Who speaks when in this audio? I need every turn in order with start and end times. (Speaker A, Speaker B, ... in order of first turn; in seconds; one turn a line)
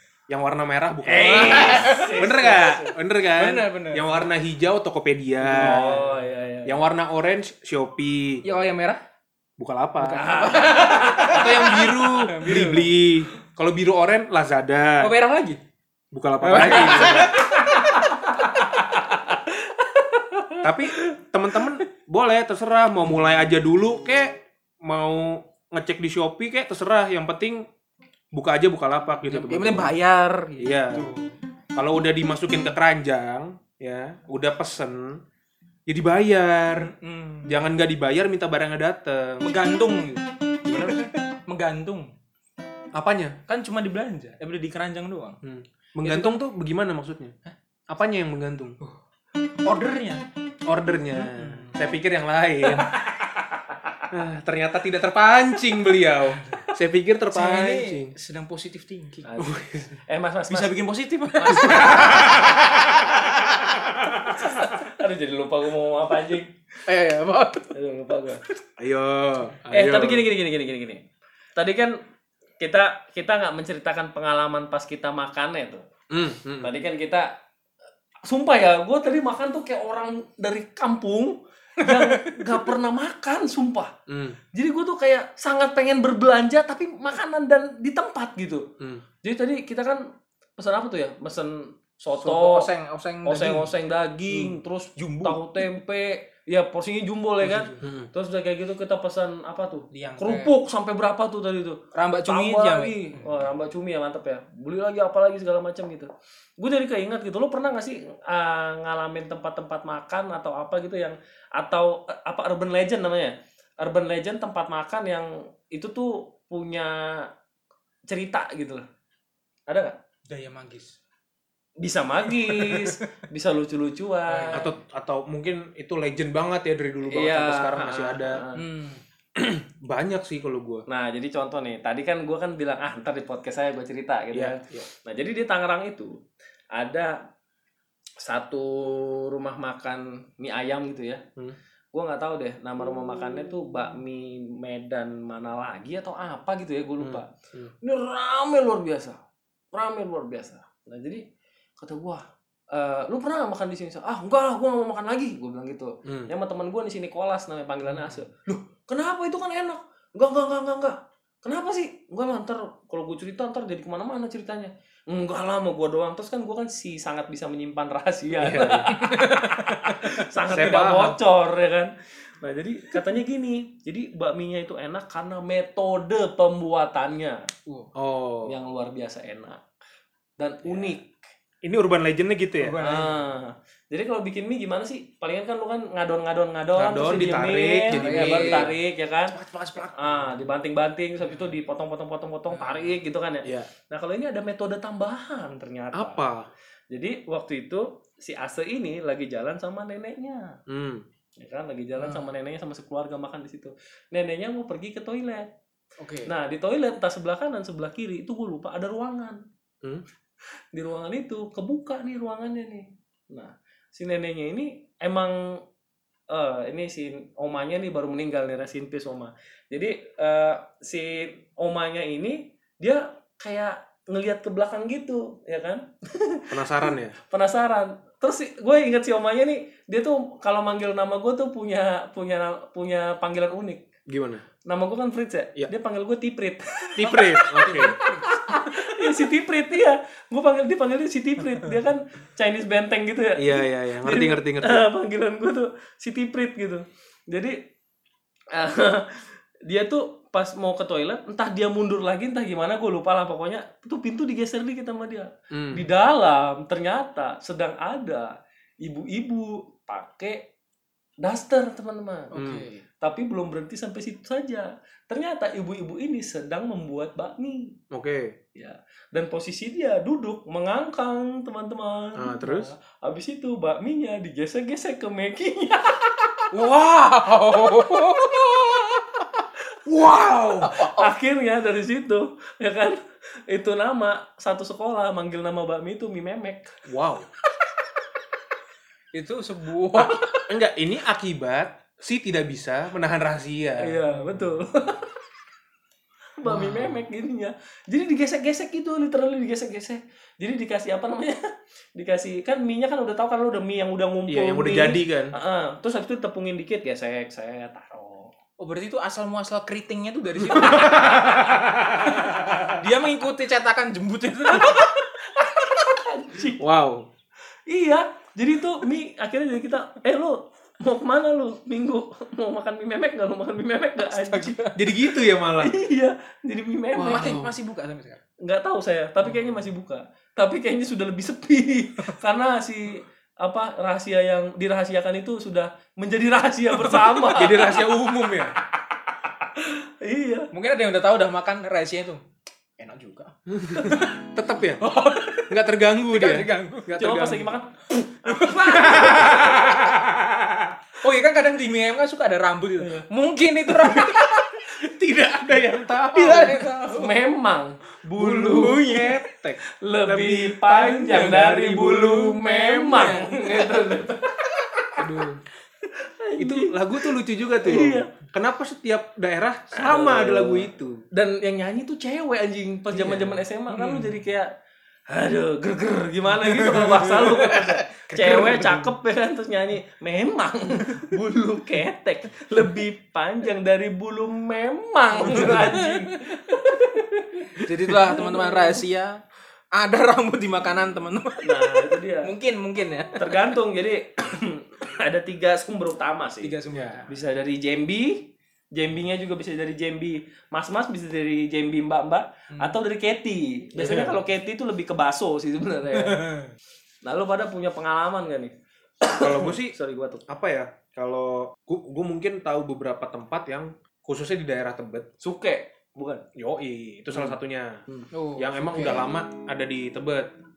Speaker A: 0.3-6.0
Speaker B: 1.0-3.0
Speaker C: 1.2-2.2
Speaker C: 3.4-4.2
Speaker B: 5.5-6.8
Speaker C: 5.5-6.2
Speaker A: 6.7-8.4
Speaker C: 8.4-9.0
Speaker A: 9.6-10.3
Speaker C: 10.0-12.9
Speaker B: 10.2-11.5
Speaker A: 11.3-15.1
Speaker C: 15.0-15.6
Speaker A: 16.1-17.5
Speaker C: 16.4-18.7
Speaker B: 17.6-21.0
Speaker A: 20.6-27.6
Speaker A: 28.3-29.9
Speaker C: 29.3-31.4
Speaker A: 30.6-31.1
Speaker A: 31.8-35.2
Speaker A: 35.9-36.9
Speaker C: 36.8-37.6
Speaker A: 37.4-39.5
Speaker C: 39.4-42.1
Speaker A: 40.6-41.0
Speaker A: 42.9-43.4
Speaker C: 43.5-45.4
Speaker A: 45.4-47.3
Speaker C: 46.0-46.4
Speaker A: 47.9-48.8
Speaker C: 49.6-50.2
Speaker A: 50.7-52.9
Speaker C: 51.1-51.8
Speaker C: 52.7-53.0
Speaker B: 53.7-54.0
Speaker A: 54.1-58.1
Speaker C: 56.4-56.7
Speaker C: 57.3-59.3
Speaker B: 59.2-62.3
Speaker A: 59.4-60.0
Speaker C: 60.5-63.1
Speaker A: 61.5-62.6
Speaker A: 63.7-64.4
Speaker B: 64.4-66.5
Speaker C: 66.8-67.7
Speaker B: 67.7-68.4
Speaker A: 68.8-70.3
Speaker B: 69.7-71.0
Speaker B: 71.5-72.0
Speaker B: 72.6-75.8
Speaker A: 76.1-76.7
Speaker B: 76.6-77.3
Speaker B: 78.2-83.9
Speaker C: 82.0-82.4
Speaker A: 84.1-84.4
Speaker B: 84.5-88.7
Speaker B: 89.2-90.0
Speaker B: 90.6-92.7
Speaker C: 92.2-93.7
Speaker B: 93.2-117.3
Speaker C: 94.3-95.6
Speaker C: 97.4-97.8
Speaker A: 97.8-98.1
Speaker C: 99.9-100.5
Speaker C: 101.9-103.2
Speaker B: 118.1-118.8
Speaker B: 119.7-120.0
Speaker C: 120.3-121.0
Speaker B: 121.8-124.7
Speaker C: 122.3-123.0
Speaker C: 124.3-124.7
Speaker A: 124.5-128.4
Speaker B: 127.1-128.6
Speaker C: 128.6-129.0
Speaker A: 129.3-130.8
Speaker B: 130.9-136.2
Speaker A: 134.3-134.8
Speaker B: 136.7-137.2
Speaker B: 138.2-141.2
Speaker B: 141.9-147.3
Speaker A: 147.0-147.7
Speaker B: 147.8-149.2
Speaker B: 149.7-151.2
Speaker B: 151.8-177.5
Speaker A: 156.0-156.3
Speaker A: 168.3-169.0
Speaker C: 169.0-170.9
Speaker A: 170.4-171.2
Speaker A: 177.9-178.5
Speaker B: 178.4-179.6
Speaker B: 180.4-181.2
Speaker A: 180.7-180.9
Speaker A: 181.6-182.8
Speaker C: 182.6-183.3
Speaker B: 182.8-189.4
Speaker A: 186.7-188.7
Speaker C: 187.9-188.8
Speaker C: 189.3-190.5
Speaker B: 189.9-196.2
Speaker C: 192.5-192.9
Speaker A: 195.9-196.5
Speaker B: 196.9-200.6
Speaker A: 200.7-201.0
Speaker B: 201.4-205.5
Speaker C: 201.9-202.3
Speaker C: 206.0-206.3
Speaker B: 206.2-209.4
Speaker B: 210.7-215.6
Speaker B: 216.3-233.8
Speaker A: 226.5-227.1
Speaker A: 234.1-234.4
Speaker B: 234.7-247.6
Speaker A: 237.0-238.0
Speaker C: 237.2-239.0
Speaker A: 243.4-244.8
Speaker B: 248.5-260.5
Speaker A: 255.5-255.8
Speaker B: 261.2-262.3
Speaker C: 262.3-262.8
Speaker A: 262.3-262.7
Speaker B: 263.0-267.8
Speaker A: 267.9-268.3
Speaker B: 268.5-276.5
Speaker A: 272.2-272.7
Speaker C: 276.5-279.4
Speaker A: 279.9-280.8
Speaker C: 280.6-281.1
Speaker B: 280.8-286.7
Speaker A: 286.9-287.3
Speaker C: 289.1-290.5
Speaker A: 289.9-294.0
Speaker B: 293.8-295.2
Speaker C: 294.1-294.6
Speaker B: 296.4-308.3
Speaker C: 296.4-297.0
Speaker A: 304.3-305.3
Speaker C: 308.6-311.4
Speaker A: 310.4-312.8
Speaker C: 312.1-315.0
Speaker B: 314.5-316.6
Speaker A: 316.6-317.1
Speaker B: 317.7-324.7
Speaker C: 324.1-324.8
Speaker A: 324.7-325.8
Speaker B: 325.5-327.4
Speaker A: 326.9-327.5
Speaker C: 327.1-328.2
Speaker B: 328.4-338.0
Speaker C: 336.8-337.7
Speaker A: 337.3-338.6
Speaker B: 338.8-340.5
Speaker C: 340.5-342.2
Speaker C: 342.8-344.2
Speaker A: 343.5-344.8
Speaker C: 344.8-347.2
Speaker A: 345.5-347.5
Speaker B: 346.9-349.8
Speaker C: 348.3-350.0
Speaker A: 348.9-350.8
Speaker C: 351.0-354.6
Speaker B: 352.8-353.0
Speaker A: 354.8-356.7
Speaker C: 356.0-357.2
Speaker B: 356.8-364.9
Speaker A: 358.1-363.2
Speaker C: 361.1-361.6
Speaker C: 362.5-363.9
Speaker C: 365.0-365.4
Speaker A: 365.0-365.4
Speaker B: 365.8-368.1
Speaker A: 366.4-371.0
Speaker B: 369.7-374.5
Speaker C: 372.9-374.1
Speaker B: 375.1-388.8
Speaker C: 376.4-378.9
Speaker C: 385.2-386.2
Speaker C: 387.6-389.2
Speaker C: 389.7-393.6
Speaker B: 391.4-392.3
Speaker B: 393.2-396.6
Speaker C: 396.4-397.1
Speaker A: 396.7-397.0
Speaker B: 397.1-406.2
Speaker A: 403.8-404.2
Speaker C: 405.9-406.5
Speaker B: 407.0-410.2
Speaker A: 409.2-409.7
Speaker A: 410.3-415.1
Speaker B: 415.2-416.2
Speaker A: 416.4-417.8
Speaker C: 418.1-419.1
Speaker A: 418.4-420.3